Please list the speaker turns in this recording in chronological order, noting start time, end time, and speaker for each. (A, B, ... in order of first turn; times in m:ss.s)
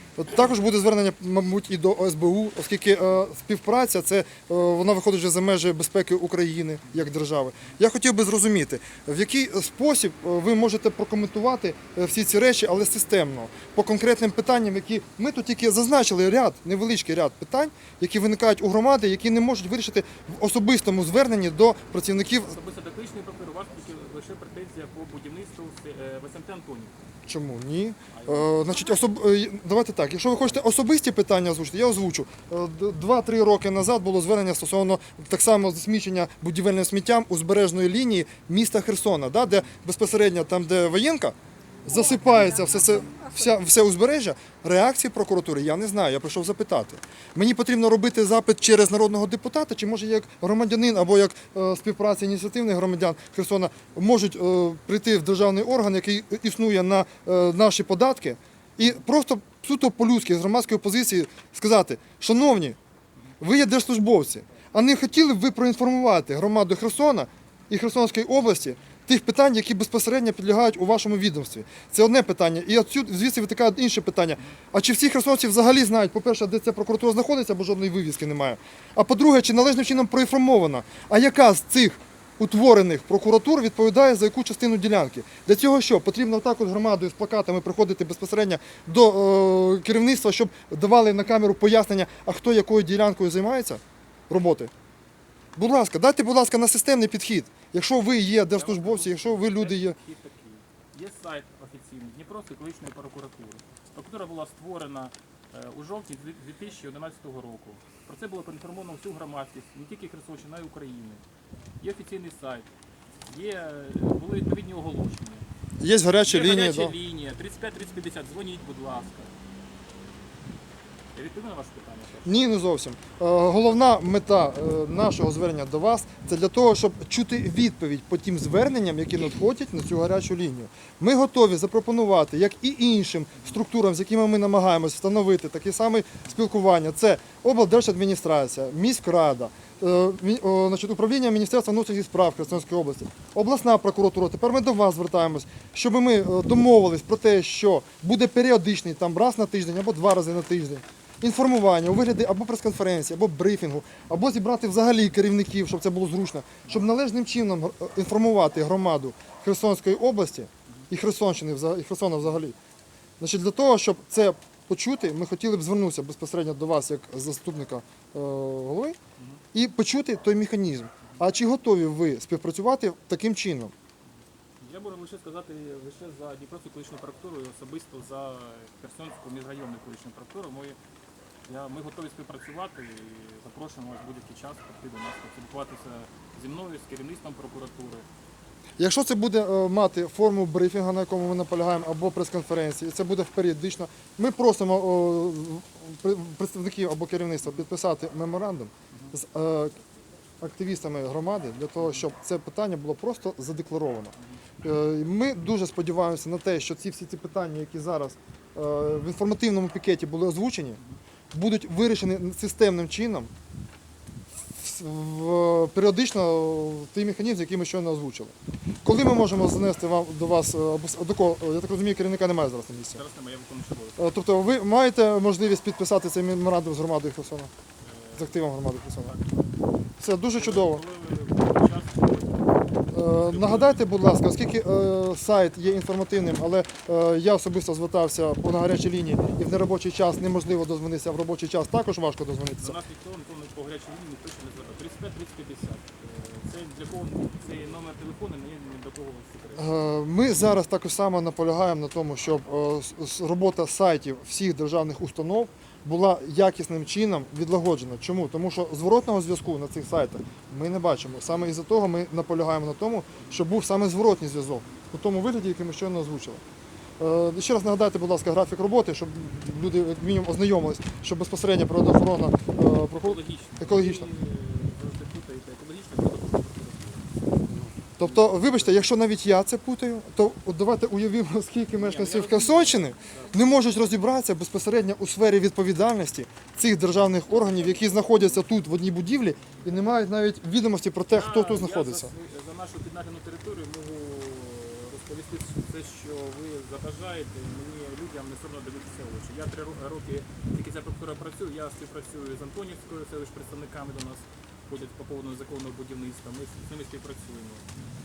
0:00.2-0:22.6 A
0:22.4-0:26.9 B
0:27.3-1:02.8 A
0:28.1-0:29.0 B
1:03.4-1:34.7 A
1:35.6-1:40.0 A
1:38.3-1:51.2 B
1:51.8-1:52.7 B
1:53.2-1:55.5 B
1:55.8-1:57.0 A
1:56.2-1:59.3 B
2:01.1-2:02.5 B
2:02.2-2:42.6 A
2:43.2-2:49.0 A
2:49.2-2:49.4 B
2:49.5-2:53.7 A
2:54.6-3:00.8 B
3:01.5-3:08.1 B
3:08.8-3:19.7 A
3:20.4-3:30.8 A
3:21.8-3:22.1 B
3:31.3-3:33.3 A
3:34.5-3:38.3 A
3:38.8-3:43.0 A
3:42.9-3:44.0 B
3:44.0-3:47.5 A
3:47.8-3:49.6 B
3:48.2-3:49.1 A
3:50.0-3:50.8 A
3:50.4-3:53.9 B
3:52.9-4:02.8 A
4:02.6-4:09.8 B
4:09.6-4:26.4 A
4:27.0-4:34.1 A
4:32.9-4:37.1 B
4:37.5-4:52.1 A
4:38.0-4:38.9 B
4:41.7-4:43.8 B
4:51.1-5:07.7 B